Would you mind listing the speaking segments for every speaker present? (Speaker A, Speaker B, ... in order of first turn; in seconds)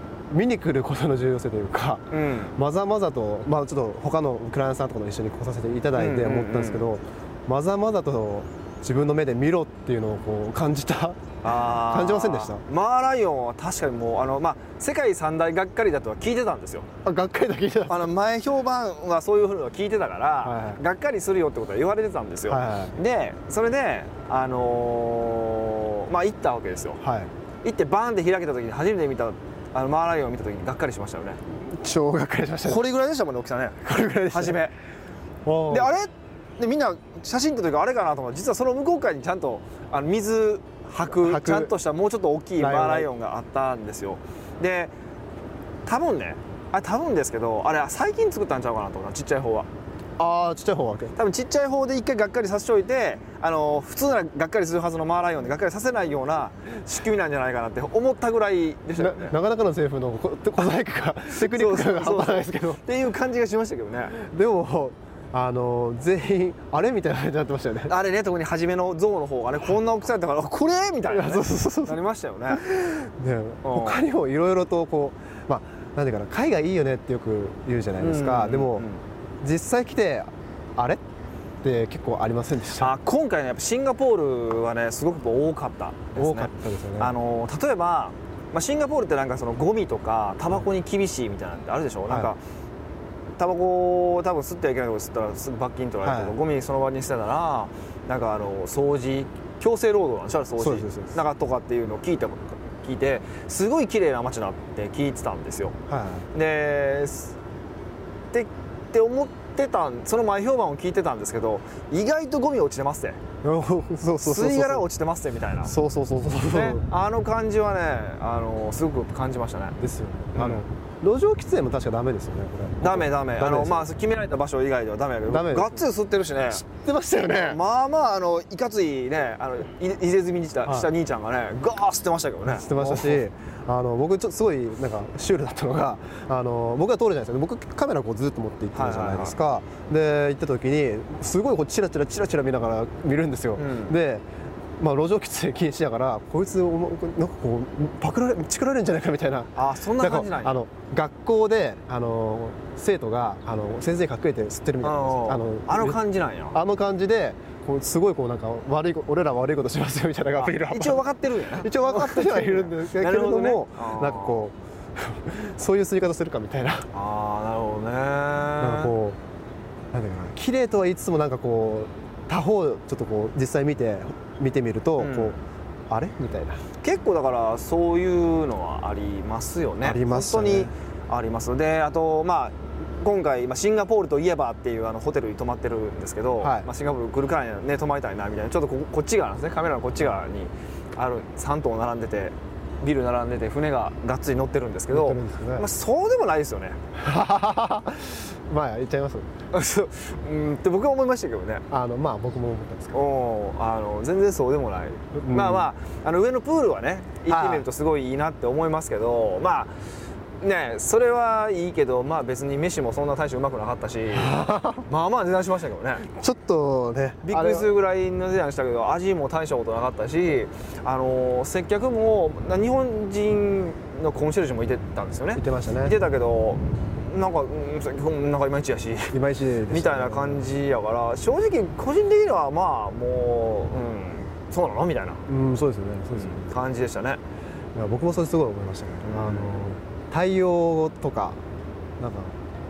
Speaker A: 0.3-12.6, 17.1-18.1, 20.4-20.8, 22.5-23.0, 27.0-27.3, 31.5-32.9, 33.8-34.6, 35.5-35.9, 41.1-41.7, 42.6-43.1, 50.2-51.2, 59.0-62.8, 64.1-68.0, 71.0-78.9, 79.4-81.0, 81.6-82.9, 86.2-87.1, 92.1-92.3, 96.0-96.4, 100.6-101.2, 105.9-106.3, 113.4-114.9, 115.6-116.8, 119.8-123.9, 125.3-125.9, 126.6-127.6, 132.5-144.2, 144.8-156.0, 156.5-166.9, 168.6-169.2, 169.9-175.4, 175.9-176.6, 179.8-180.7, 186.4-186.7, 194.9-195.7, 197.0-199.3, 201.7-203.1, 205.2-205.7, 207.3-207.7, 214.1-214.9, 216.1-217.7, 225.3-226.0, 229.1-230.5, 235.3-236.6, 237.8-241.4, 242.0-242.4
Speaker B: 2.1-2.6, 6.0-6.8, 11.4-16.9, 17.9-27.0, 27.6-31.4, 32.6-34.7, 35.7-44.9, 45.9-49.7, 51.2-59.4, 61.3-64.1, 67.9-72.6, 73.6-74.0, 78.0-79.0, 82.8-92.4, 93.4-105.8, 106.3-107.4, 108.3-113.2, 114.2-115.7, 116.4-119.8, 120.3-120.7, 122.8-126.7, 127.4-133.2, 138.7-139.4, 143.6-144.0, 149.6-150.7, 154.8-156.6, 160.4-164.4, 166.9-168.9, 175.0-175.4, 176.8-196.8, 199.5-201.6, 202.9-209.7, 210.4-216.1, 217.2-229.2, 229.7-235.2, 236.1-237.2, 239.1-239.7